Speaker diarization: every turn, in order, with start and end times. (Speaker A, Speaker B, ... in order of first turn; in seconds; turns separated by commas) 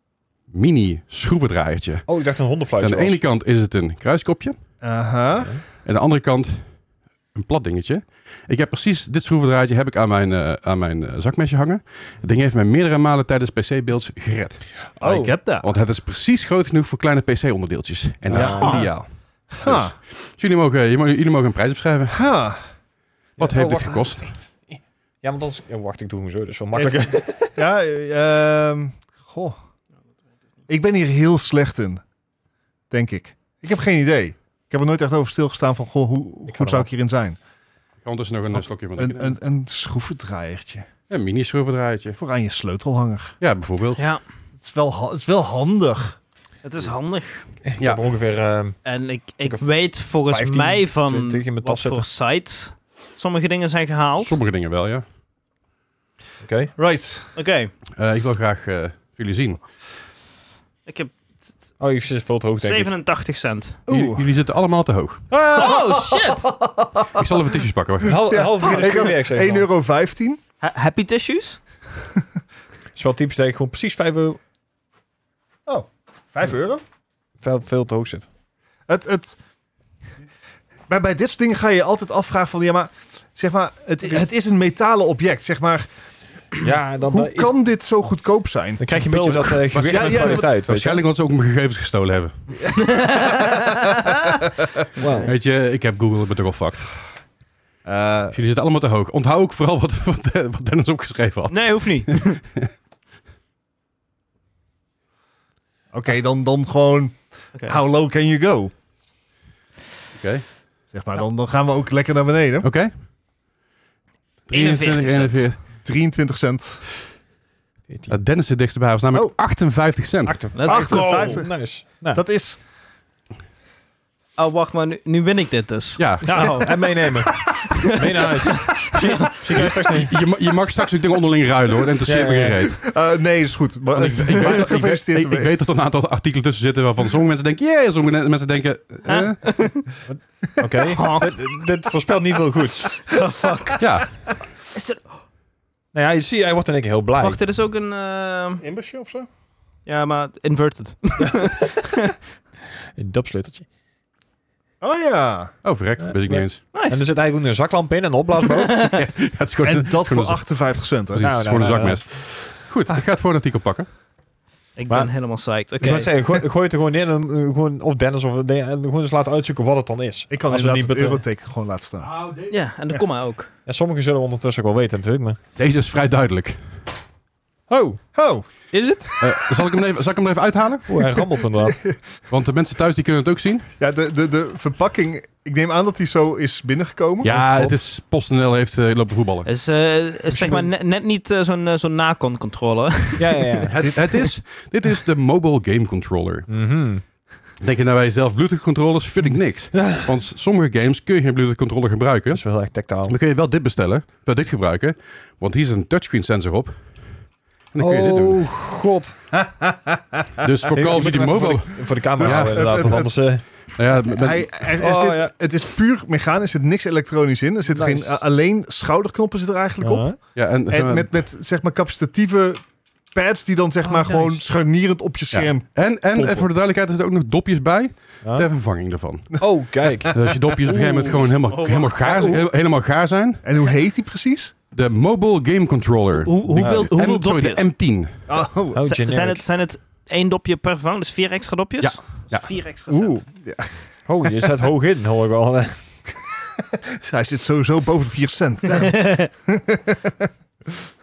Speaker A: 0.5-4.6, Speaker B: 2.1-3.2, Speaker C: 4.8-5.6, Speaker A: 5.8-6.8, Speaker A: 7.3-14.7, Speaker C: 15.0-15.7, Speaker B: 15.0-15.3, Speaker A: 15.6-22.2, Speaker C: 18.3-18.9, Speaker B: 18.3-18.9, Speaker C: 19.5-19.9, Speaker C: 22.1-22.6, Speaker A: 23.4-24.3, Speaker B: 23.4-27.6, Speaker C: 26.7-29.6, Speaker C: 30.7-32.0, Speaker C: 32.9-37.4, Speaker B: 36.5-36.9, Speaker A: 38.0-39.4, Speaker C: 38.5-40.9, Speaker A: 41.1-42.2, Speaker C: 42.2-43.4, Speaker A: 43.4-44.1, Speaker C: 44.6-46.2, Speaker D: 46.6-47.5, Speaker B: 47.6-48.8, Speaker A: 47.8-48.0, Speaker D: 48.9-54.4, Speaker B: 50.3-52.1, Speaker A: 54.2-55.0, Speaker B: 56.4-56.7, Speaker C: 56.8-57.3, Speaker D: 57.4-57.7, Speaker A: 58.0-59.6, Speaker D: 60.9-61.1, Speaker B: 61.8-62.9, Speaker D: 62.6-63.8, Speaker C: 63.9-64.3, Speaker A: 63.9-65.2, Speaker B: 65.3-66.1, Speaker C: 65.5-67.2, Speaker D: 65.5-66.5, Speaker A: 67.1-68.3, Speaker C: 68.0-70.4, Speaker B: 68.1-69.7, Speaker D: 68.6-69.0, Speaker D: 70.6-71.6, Speaker B: 73.0-74.4, Speaker C: 75.7-76.8, Speaker B: 77.4-78.3, Speaker C: 78.9-79.4, Speaker C: 80.9-85.9, Speaker B: 86.6-87.5, Speaker C: 87.0-90.5, Speaker B: 88.8-91.0, Speaker A: 89.2-92.4, Speaker D: 92.8-93.6, Speaker C: 93.2-93.6, Speaker B: 95.0-95.3, Speaker A: 95.2-96.9, Speaker C: 97.8-98.4, Speaker A: 98.3-102.7, Speaker D: 101.5-102.4, Speaker C: 105.9-108.7, Speaker A: 110.2-110.5, Speaker C: 110.9-112.7, Speaker A: 112.6-112.9, Speaker A: 114.5-115.6, Speaker D: 114.5-115.5, Speaker C: 115.8-116.8, Speaker B: 117.9-118.2, Speaker A: 118.1-120.4, Speaker B: 120.2-122.2, Speaker D: 120.5-121.5, Speaker C: 120.6-122.6, Speaker D: 124.4-129.4, Speaker A: 126.0-126.5, Speaker B: 126.2-130.1, Speaker C: 126.4-127.2, Speaker A: 129.5-132.8, Speaker B: 132.1-132.8, Speaker C: 132.8-135.5, Speaker A: 133.9-139.4, Speaker D: 139.1-139.9, Speaker B: 140.1-143.0, Speaker D: 140.8-141.3, Speaker D: 142.9-143.9, Speaker A: 143.8-144.1, Speaker D: 144.7-145.0, Speaker B: 145.9-147.4, Speaker D: 147.2-148.6, Speaker C: 148.6-149.3, Speaker D: 149.9-152.0, Speaker B: 152.9-153.7, Speaker C: 154.8-155.6, Speaker A: 155.6-156.6, Speaker B: 156.0-159.0, Speaker D: 156.7-157.1, Speaker D: 158.5-159.0, Speaker A: 158.9-163.9, Speaker C: 159.6-161.3, Speaker B: 161.2-162.3, Speaker D: 164.8-166.2, Speaker B: 165.8-171.2, Speaker C: 170.3-172.1, Speaker A: 172.0-172.5, Speaker D: 172.5-173.5, Speaker B: 173.7-175.4, Speaker A: 175.6-176.6, Speaker B: 177.7-178.0, Speaker C: 178.1-178.5, Speaker B: 178.7-179.2, Speaker A: 179.2-181.0, Speaker B: 180.9-181.9, Speaker C: 181.6-182.0, Speaker A: 182.3-183.7, Speaker C: 183.8-187.3, Speaker A: 187.2-189.5, Speaker B: 187.2-187.8, Speaker D: 189.5-193.7, Speaker B: 190.3-190.7, Speaker B: 193.2-193.8, Speaker A: 193.7-196.5, Speaker C: 193.8-194.1, Speaker B: 196.5-197.0, Speaker A: 197.6-202.4, Speaker B: 202.3-203.2, Speaker A: 203.1-207.1, Speaker A: 207.7-208.4, Speaker B: 207.8-209.2, Speaker C: 209.4-210.0, Speaker A: 210.4-212.9, Speaker B: 210.7-213.4, Speaker C: 212.2-213.2, Speaker A: 213.7-214.7, Speaker C: 213.9-226.5, Speaker B: 214.8-215.3, Speaker B: 217.7-218.2, Speaker B: 219.8-220.2, Speaker A: 220.3-221.2, Speaker B: 224.0-224.3, Speaker A: 225.3-229.4, Speaker B: 229.4-230.2, Speaker A: 230.1-233.4, Speaker D: 231.5-232.3, Speaker C: 232.0-232.4, Speaker C: 233.4-234.5, Speaker A: 234.7-238.2, Speaker D: 236.2-237.7, Speaker C: 238.3-238.9, Speaker B: 238.7-239.4, Speaker D: 238.8-243.2, Speaker A: 241.8-242.5, Speaker C: 242.9-243.8, Speaker B: 244.1-246.2, Speaker C: 246.8-250.3, Speaker D: 248.8-249.3